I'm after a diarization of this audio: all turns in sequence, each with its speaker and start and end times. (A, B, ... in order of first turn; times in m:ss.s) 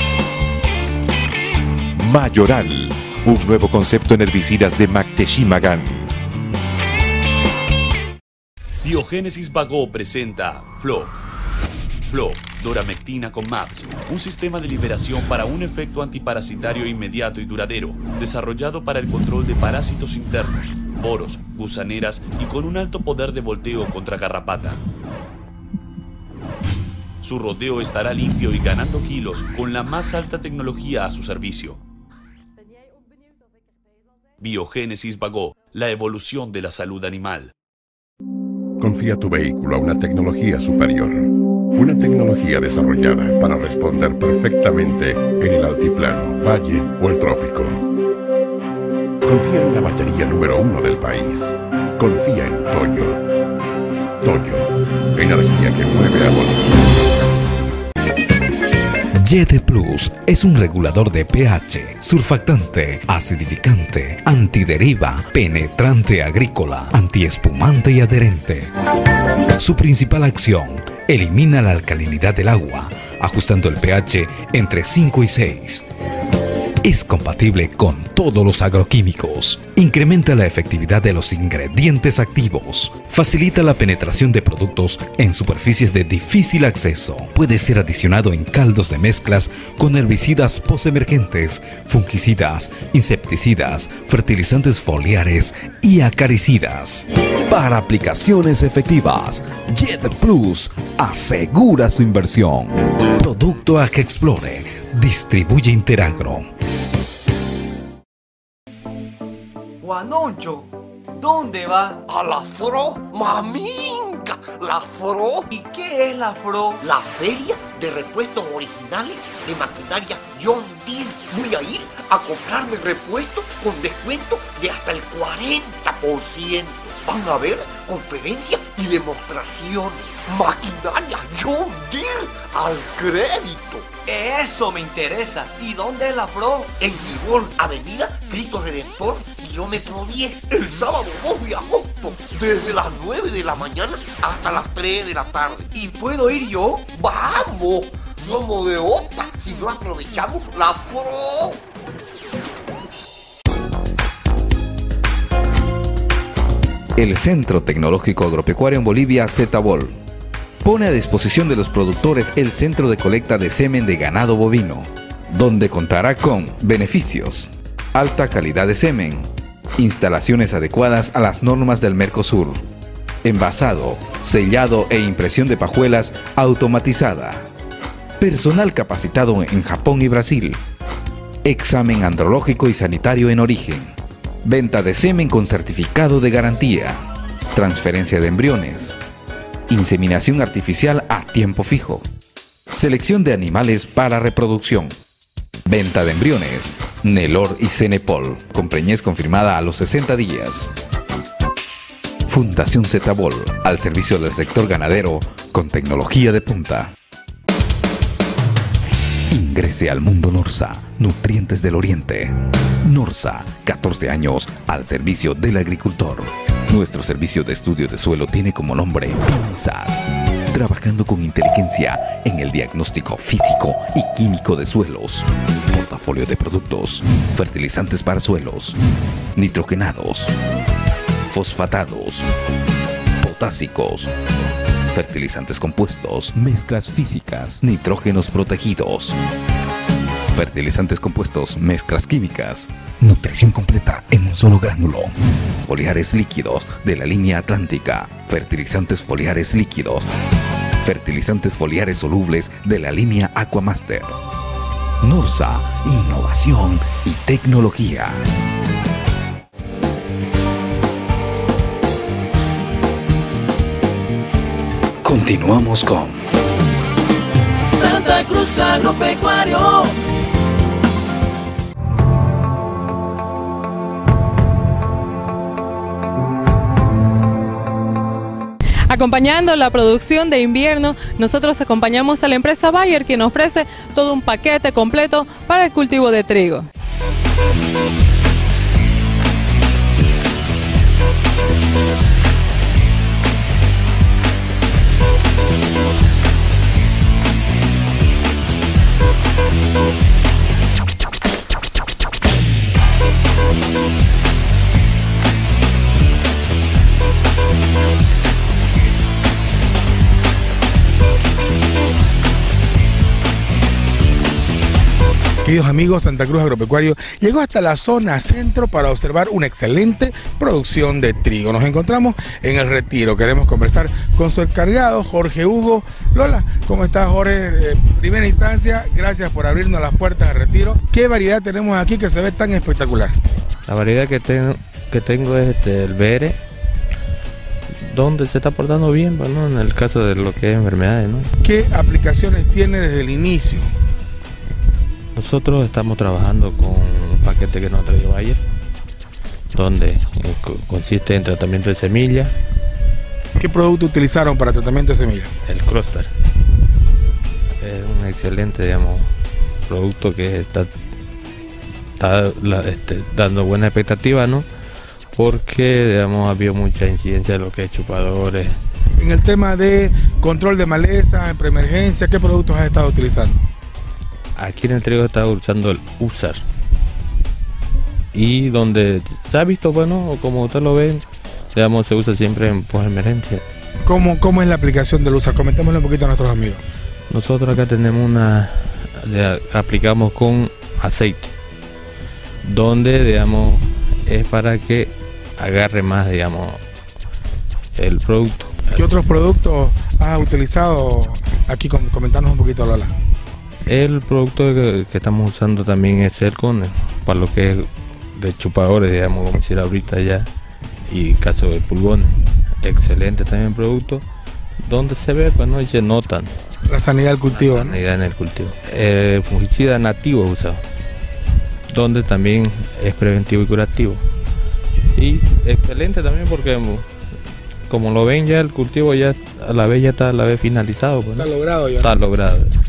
0:02.0-0:06.1 A
0:08.8-0:11.2 B
0:12.0-0:24.8 B
0:27.2-0:31.8 B
0:34.4-0:37.5 B
0:38.8-0:47.8 C
0:49.2-0:53.2 C
0:54.2-0:56.6 C
0:59.2-1:08.7 D
1:09.6-1:15.8 D
1:16.8-1:46.5 D
1:49.8-1:52.0 E
1:52.1-1:55.5 F
1:55.5-1:56.8 E
1:56.8-2:13.9 F
2:14.1-2:16.7 E
2:16.8-2:25.7 F
2:25.7-2:26.8 E
2:26.9-2:31.6 F
2:37.0-2:40.0 D
2:40.6-2:52.6 D
2:53.2-2:57.5 D
2:58.2-3:00.6 D
3:01.4-3:07.0 D
3:07.6-3:09.0 D
3:09.7-3:12.1 D
3:12.7-3:15.0 D
3:15.7-3:20.7 D
3:22.3-3:26.9 D
3:29.3-3:40.0 D
3:40.5-3:48.8 D
3:49.4-3:50.3 D
3:51.3-3:52.3 D
3:53.2-3:54.1 D
3:54.9-3:59.2 D
4:00.3-4:10.1 D
4:10.8-4:14.2 D
4:15.0-4:18.2 D
4:25.0-4:26.2 D
4:27.8-4:29.9 G
4:38.9-4:46.7 G
5:15.4-5:33.2 H
5:33.7-5:36.4 I
5:37.8-5:41.3 I
5:41.4-5:43.7 H
5:45.2-5:48.4 I
5:49.5-5:52.3 I
5:53.4-5:55.3 H
5:55.5-5:56.1 I
5:57.6-5:59.1 I
5:59.7-6:00.7 I
6:02.0-6:04.5 I
6:05.1-6:08.6 I
6:09.0-6:13.5 H
6:14.4-6:16.4 I
6:18.1-6:23.4 I
6:23.9-6:26.6 H
6:27.1-6:31.2 I
6:32.4-6:36.6 I
6:37.8-6:38.8 I
6:38.7-6:42.9 H
6:43.7-6:50.3 I
6:50.9-6:54.0 I
6:54.6-6:56.4 I
6:56.7-6:57.8 H
6:57.3-7:00.6 I
7:01.7-7:04.0 I
7:05.0-7:06.8 I
7:07.7-7:12.6 I
7:11.2-7:11.9 H